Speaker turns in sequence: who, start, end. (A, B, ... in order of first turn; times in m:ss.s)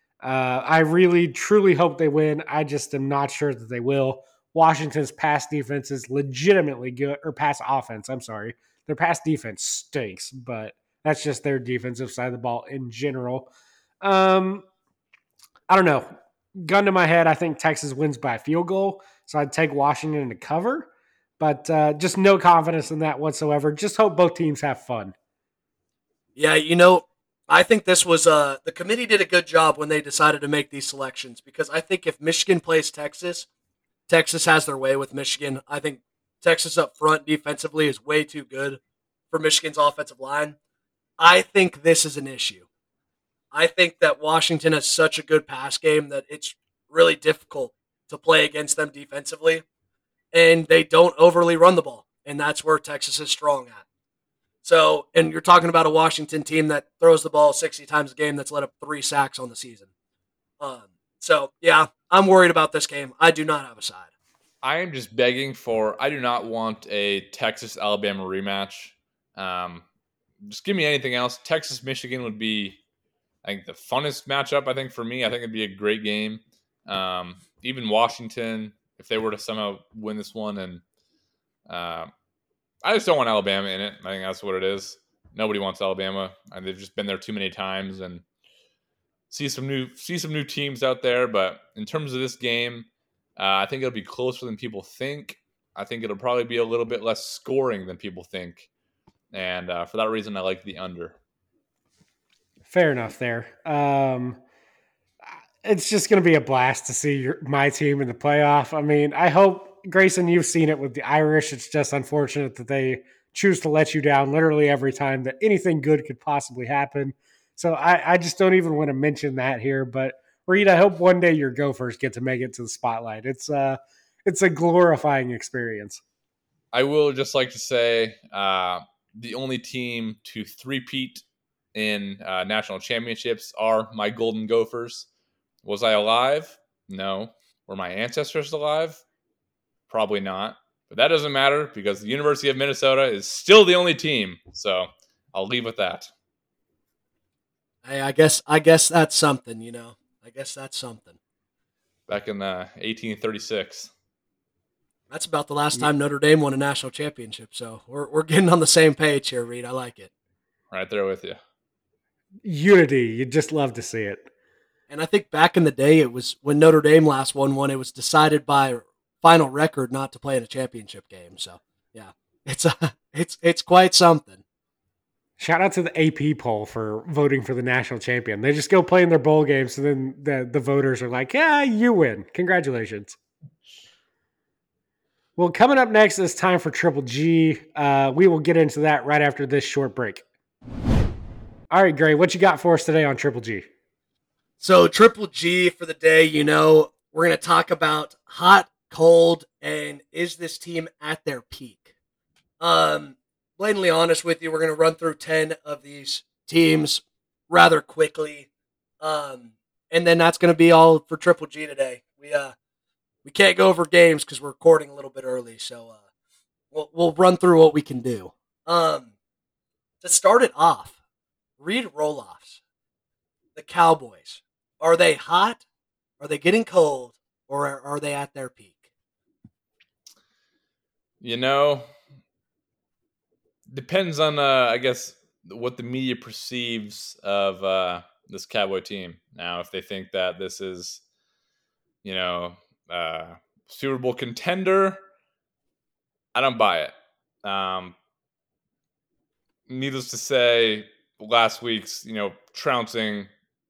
0:00.2-0:13.5 A
0:14.0-0:14.7 A
0:15.7-0:25.2 A
0:26.4-0:33.5 B
0:34.1-0:38.8 B
0:39.3-0:40.6 B
0:41.2-0:42.7 B
0:43.5-0:49.6 B
0:50.3-0:53.8 B
0:54.6-0:59.9 B
1:00.6-1:04.1 B
1:04.6-1:09.8 C
1:10.4-1:12.8 C
1:13.4-1:20.8 C
1:21.7-1:22.1 C
1:22.8-1:28.2 C
1:29.3-1:38.7 C
1:39.3-1:41.2 C
1:42.7-1:44.4 A
1:45.6-2:06.0 A
2:06.7-2:11.2 C
2:11.8-2:15.1 C
2:15.6-2:19.0 C
2:19.9-2:26.1 C
2:27.8-2:31.2 B
2:32.1-2:33.9 C
2:35.1-2:40.1 B
2:40.7-2:41.4 C
2:42.4-2:44.3 A
2:44.9-2:54.4 B
2:55.4-3:03.2 A
3:05.4-3:10.2 A
3:11.7-3:13.7 A
3:14.6-3:21.9 B
3:22.6-3:28.5 B
3:29.0-3:32.5 B
3:33.2-3:36.0 B
3:36.7-3:39.1 B
3:40.0-3:41.0 B
3:41.6-3:42.6 B
3:43.6-3:45.6 B
3:46.2-3:48.8 B
3:51.2-3:51.9 C
3:53.7-4:01.0 C
4:02.0-4:05.0 C
4:06.4-4:07.9 C
4:09.7-4:13.3 C